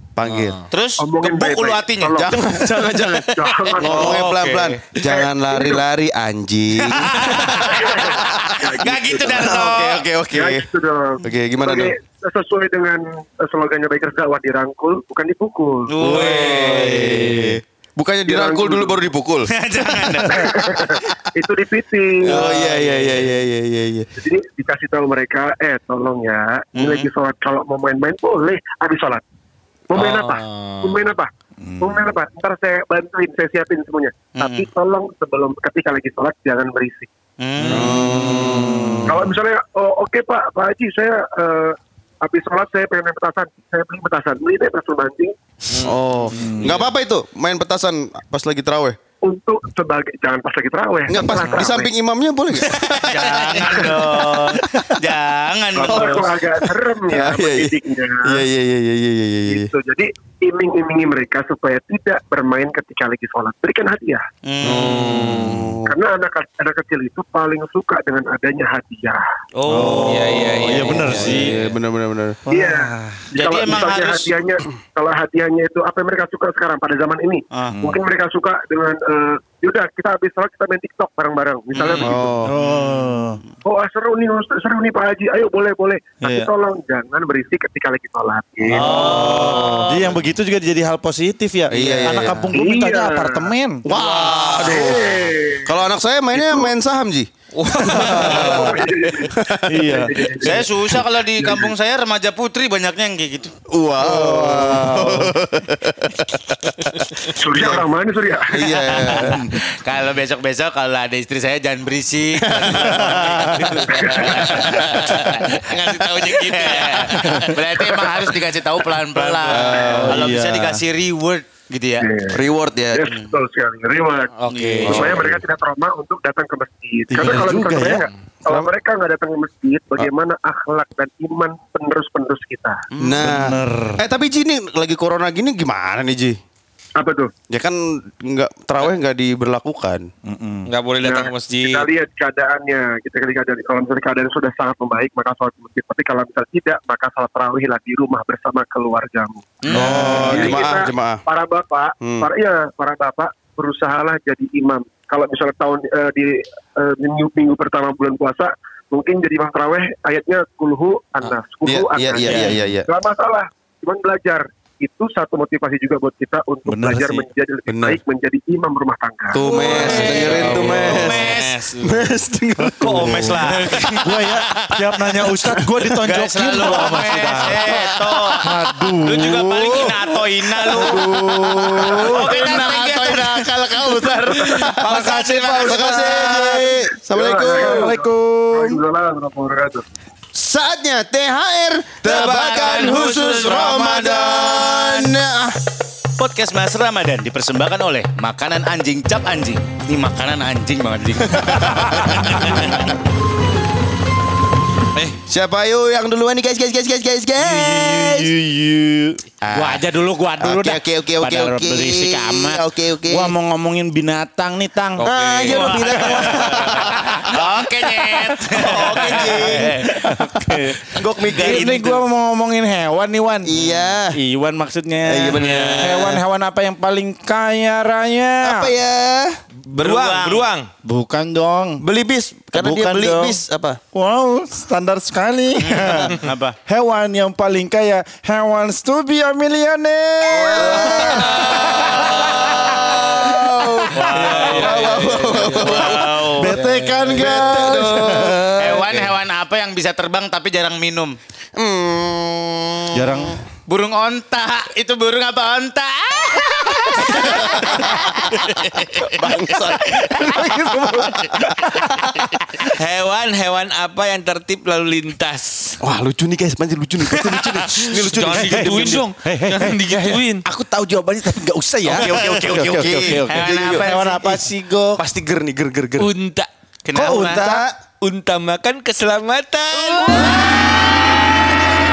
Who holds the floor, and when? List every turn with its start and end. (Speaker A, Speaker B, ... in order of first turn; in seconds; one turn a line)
Speaker A: 0.2-0.6
Speaker B: 0.3-0.6
Speaker C: 0.7-2.9
Speaker D: 1.0-2.4
Speaker A: 2.1-8.2
Speaker D: 2.9-4.2
Speaker C: 3.8-4.8
Speaker D: 5.0-5.8
Speaker C: 6.8-10.1
Speaker D: 7.7-9.7
Speaker A: 9.3-10.6
Speaker D: 10.3-15.9
Speaker A: 11.2-11.9
Speaker C: 15.9-17.1
Speaker A: 16.0-19.5
Speaker B: 16.0-17.6
Speaker D: 18.3-19.0
Speaker C: 19.5-20.6
Speaker D: 20.2-22.4
Speaker A: 22.2-24.1
Speaker C: 22.3-23.2
Speaker D: 24.2-29.2
Speaker C: 26.8-27.1
Speaker D: 29.9-37.1
Speaker B: 29.9-31.1
Speaker E: 31.6-32.0
Speaker C: 34.3-34.7
Speaker C: 37.4-37.9
Speaker B: 37.6-38.8
Speaker A: 37.7-39.1
Speaker E: 37.8-39.2
Speaker D: 39.1-45.3
Speaker B: 45.7-46.9
Speaker A: 45.8-49.0
Speaker E: 46.3-46.8
Speaker D: 49.2-51.9
Speaker A: 51.1-54.9
Speaker C: 51.4-51.7
Speaker C: 52.8-56.3
Speaker D: 53.6-54.1
Speaker D: 55.8-58.5
Speaker A: 55.8-56.4
Speaker A: 57.1-59.7
Speaker D: 59.5-64.2
Speaker C: 64.4-64.8
Speaker A: 64.6-65.9
Speaker B: 64.7-65.7
Speaker D: 65.9-69.2
Speaker C: 69.6-71.3
Speaker E: 69.7-71.6
Speaker B: 70.0-71.8
Speaker A: 71.1-72.4
Speaker E: 72.5-73.3
Speaker D: 72.5-82.3
Speaker C: 73.3-74.4
Speaker E: 77.7-78.0
Speaker B: 81.7-82.2
Speaker A: 82.0-82.5
Speaker E: 82.5-83.4
Speaker C: 82.7-83.1
Speaker D: 83.7-89.9
Speaker E: 86.2-86.5
Speaker E: 88.7-93.8
Speaker C: 88.8-89.6
Speaker A: 88.8-90.0
Speaker B: 89.0-90.0
Speaker A: 91.7-92.5
Speaker D: 92.5-95.7
Speaker A: 93.9-101.0
Speaker B: 93.9-95.1
Speaker D: 96.3-96.7
Speaker B: 97.5-98.7
Speaker E: 97.9-98.8
Speaker D: 98.0-99.4
Speaker E: 99.6-100.1
Speaker D: 99.9-101.7
Speaker C: 100.4-103.5
Speaker A: 103.7-107.0
Speaker E: 104.0-105.3
Speaker D: 107.4-108.7
Speaker A: 108.5-109.4
Speaker C: 108.7-122.1
Speaker E: 109.2-109.5
Speaker A: 112.5-113.0
Speaker E: 112.8-113.8
Speaker D: 113.9-114.8
Speaker B: 115.6-117.9
Speaker B: 119.2-119.8
Speaker A: 119.5-120.1
Speaker E: 119.7-120.8
Speaker D: 122.0-122.4
Speaker A: 122.3-123.0
Speaker D: 122.9-132.8
Speaker B: 124.4-125.3
Speaker C: 124.5-125.2
Speaker A: 124.9-125.3
Speaker E: 127.1-128.1
Speaker C: 132.9-133.3
Speaker A: 133.0-136.4
Speaker E: 133.2-134.0
Speaker D: 137.0-137.3
Speaker A: 137.5-140.1
Speaker E: 140.2-140.7
Speaker B: 140.7-141.9
Speaker D: 141.0-169.4
Speaker C: 149.6-150.1
Speaker E: 149.7-150.6
Speaker A: 149.7-151.2
Speaker A: 152.0-152.3
Speaker A: 161.7-162.9
Speaker B: 162.2-162.6
Speaker E: 166.7-167.3
Speaker A: 167.7-168.0
Speaker A: 169.3-173.3
Speaker C: 169.3-171.7
Speaker B: 169.7-172.1
Speaker E: 169.9-170.9
Speaker E: 172.6-173.4
Speaker C: 172.8-186.2
Speaker B: 173.4-174.2
Speaker E: 174.0-182.8
Speaker A: 177.5-178.1
Speaker A: 180.7-183.2
Speaker D: 184.4-184.7
Speaker E: 184.8-186.7
Speaker A: 184.8-187.9
Speaker D: 186.3-189.8
Speaker E: 187.5-188.8
Speaker A: 190.3-195.5
Speaker C: 192.0-195.1
Speaker C: 196.2-201.6
Speaker A: 201.3-202.7
Speaker E: 201.7-202.4
Speaker B: 202.1-202.8
Speaker A: 205.3-208.3
Speaker E: 207.4-215.1
Speaker A: 209.4-209.9
Speaker A: 210.4-213.3
Speaker B: 215.0-216.7
Speaker A: 215.0-217.0
Speaker C: 215.5-219.9
Speaker E: 216.0-218.1
Speaker A: 218.5-221.9
Speaker E: 218.6-223.6
Speaker C: 221.3-222.0
Speaker A: 223.4-224.2
Speaker E: 224.1-228.7
Speaker A: 225.1-226.2
Speaker C: 225.4-225.8
Speaker A: 228.4-229.4
Speaker B: 229.7-230.7
Speaker C: 229.8-230.5
Speaker E: 230.8-231.8
Speaker A: 231.8-233.8
Speaker E: 232.5-233.4
Speaker E: 233.9-245.0
Speaker C: 235.6-236.6
Speaker A: 240.5-241.9
Speaker B: 240.7-242.8
Speaker A: 242.7-246.3
Speaker C: 243.9-244.9
Speaker B: 244.1-248.3
Speaker C: 245.5-246.6
Speaker E: 246.4-248.9
Speaker A: 247.2-249.1
Speaker C: 248.6-251.2
Speaker A: 251.6-253.3
Speaker E: 252.9-253.4
Speaker C: 253.7-259.6
Speaker A: 256.9-258.1
Speaker A: 258.8-262.2
Speaker C: 260.2-261.3
Speaker E: 260.4-260.7
Speaker B: 262.7-265.8
Speaker A: 265.8-269.0
Speaker B: 267.2-270.4
Speaker E: 268.3-275.0
Speaker A: 271.9-273.9
Speaker C: 271.9-272.7
Speaker C: 273.2-274.5
Speaker A: 275.0-276.1
Speaker B: 276.0-276.5
Speaker C: 276.9-277.5
Speaker A: 276.9-277.8
Speaker E: 277.4-277.6
Speaker B: 278.0-280.4